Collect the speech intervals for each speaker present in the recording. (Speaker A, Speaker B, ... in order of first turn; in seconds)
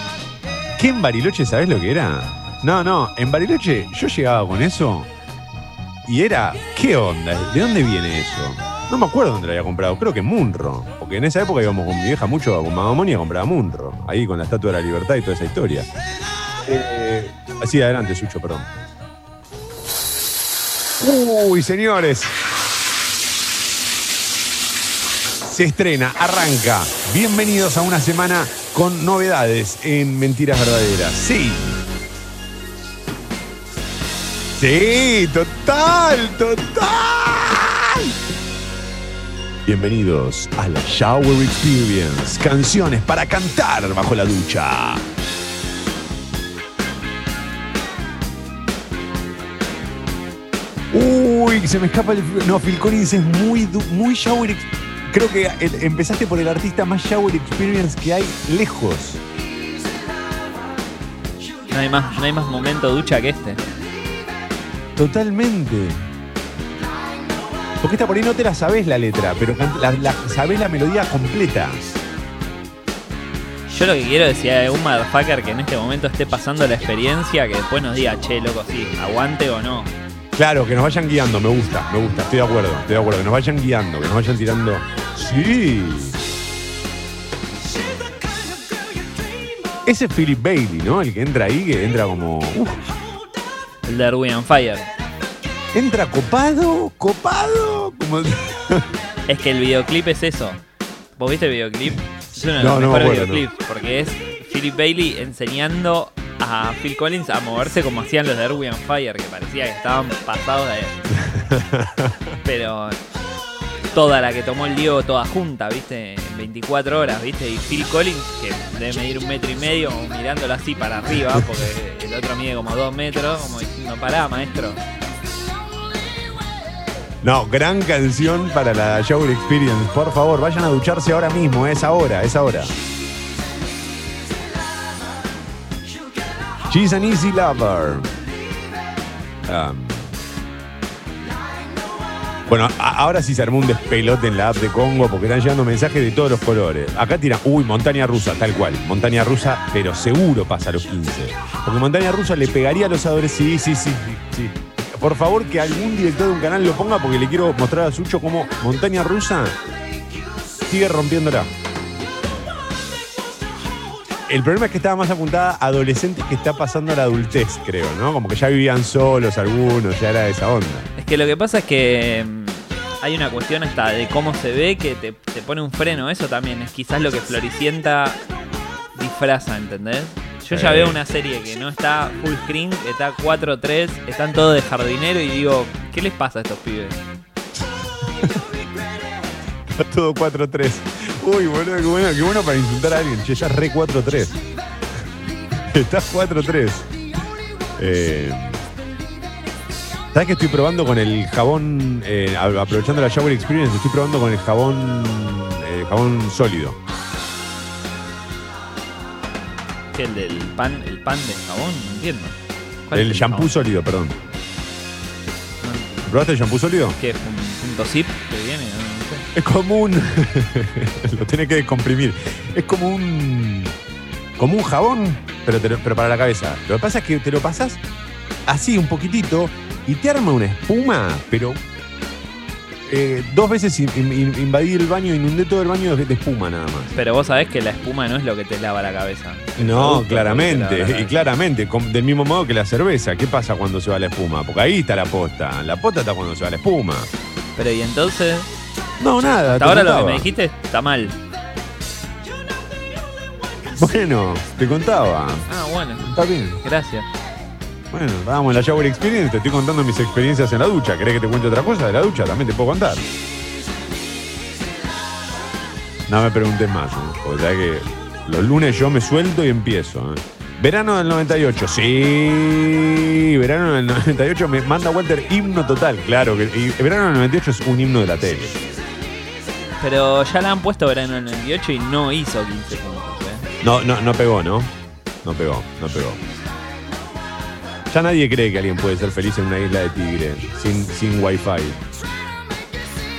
Speaker A: 0.8-5.1, 6.0-15.9, 16.6-18.7, 21.0-22.4, 25.4-31.8, 34.5-38.1, 39.6-45.0, 50.9-59.2, 65.0-66.0, 67.8-72.0, 80.3-86.2, 89.8-92.9, 95.7-98.9, 102.6-103.4, 111.1-112.3, 127.2-132.7, 136.7-138.1, 139.4-140.1, 142.4-159.6, 160.7-161.5, 164.3-170.9, 180.5-181.0, 189.7-194.4, 195.5-196.9, 197.8-198.6, 200.1-206.8, 212.9-214.2, 216.1-217.0, 219.3-223.7, 224.4-227.8, 228.4-231.6, 232.8-236.9, 239.6-247.1, 249.0-250.3, 253.7-255.5, 256.0-256.6, 257.9-263.0, 266.1-278.6, 283.6-284.7, 285.2-286.2, 287.9-291.8
Speaker B: 61.7-63.6, 73.7-79.9, 93.8-94.9, 99.3-100.6, 101.2-111.0, 112.4-113.0, 113.9-124.8, 171.0-178.2, 178.9-187.0, 209.9-212.3, 212.9-213.5, 215.6-216.1, 217.0-219.2, 236.9-241.2, 247.6-248.5, 249.5-251.2, 255.5-257.1, 279.8-283.4